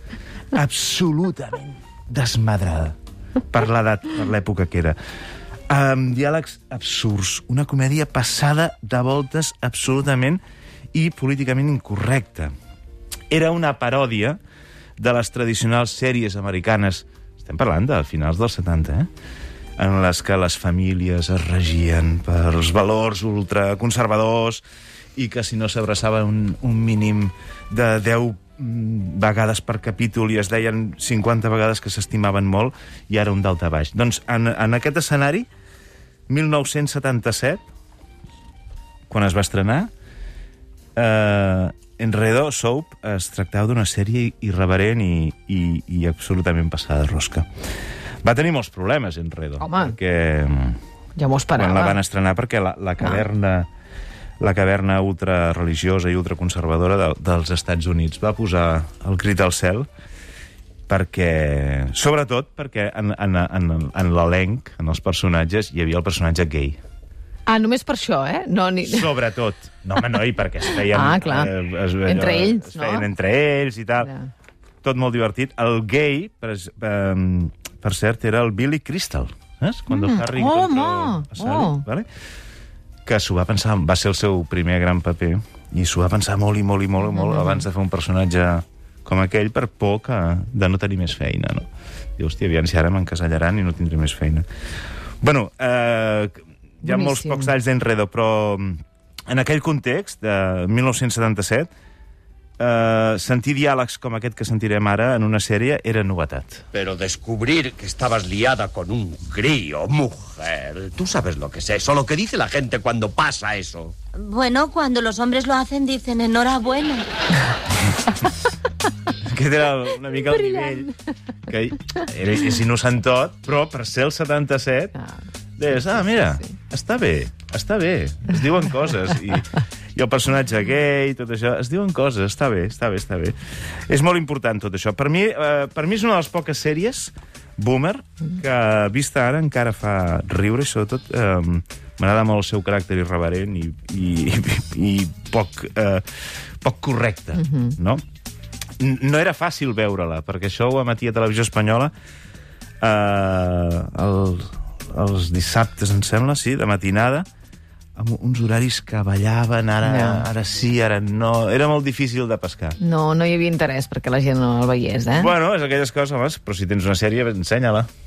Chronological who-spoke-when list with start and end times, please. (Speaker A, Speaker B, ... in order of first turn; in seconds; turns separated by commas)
Speaker A: 0.5-3.0, Speaker A: 3.5-5.0, Speaker A: 5.7-10.4, Speaker A: 10.9-12.5, Speaker A: 13.3-14.4, Speaker A: 15.0-19.1, Speaker A: 19.8-24.6, Speaker A: 25.2-35.5, Speaker A: 36.3-37.6, Speaker A: 39.1-39.9, Speaker A: 41.0-47.5, Speaker A: 48.2-50.8, Speaker B: 49.6-50.0, Speaker B: 51.2-52.0, Speaker A: 51.5-53.7, Speaker A: 54.4-59.9, Speaker A: 60.9-66.8, Speaker B: 67.5-69.1, Speaker A: 68.8-74.1, Speaker B: 70.7-73.1, Speaker B: 74.0-74.3, Speaker A: 74.8-82.1, Speaker B: 79.9-81.8, Speaker A: 83.1-91.7, Speaker B: 87.1-87.6, Speaker A: 92.2-94.5, Speaker A: 95.2-101.7, Speaker B: 96.8-97.5, Speaker A: 102.6-106.6, Speaker C: 106.7-113.9, Speaker D: 114.2-117.1, Speaker A: 119.2-120.9, Speaker A: 121.5-125.0, Speaker A: 125.6-133.4, Speaker A: 133.9-146.1, Speaker A: 146.6-148.0, Speaker B: 147.4-147.8, Speaker A: 148.8-151.9, Speaker A: 152.8-157.3, Speaker A: 158.0-162.8, Speaker B: 159.8-160.3, Speaker B: 162.8-165.3, Speaker A: 165.1-167.9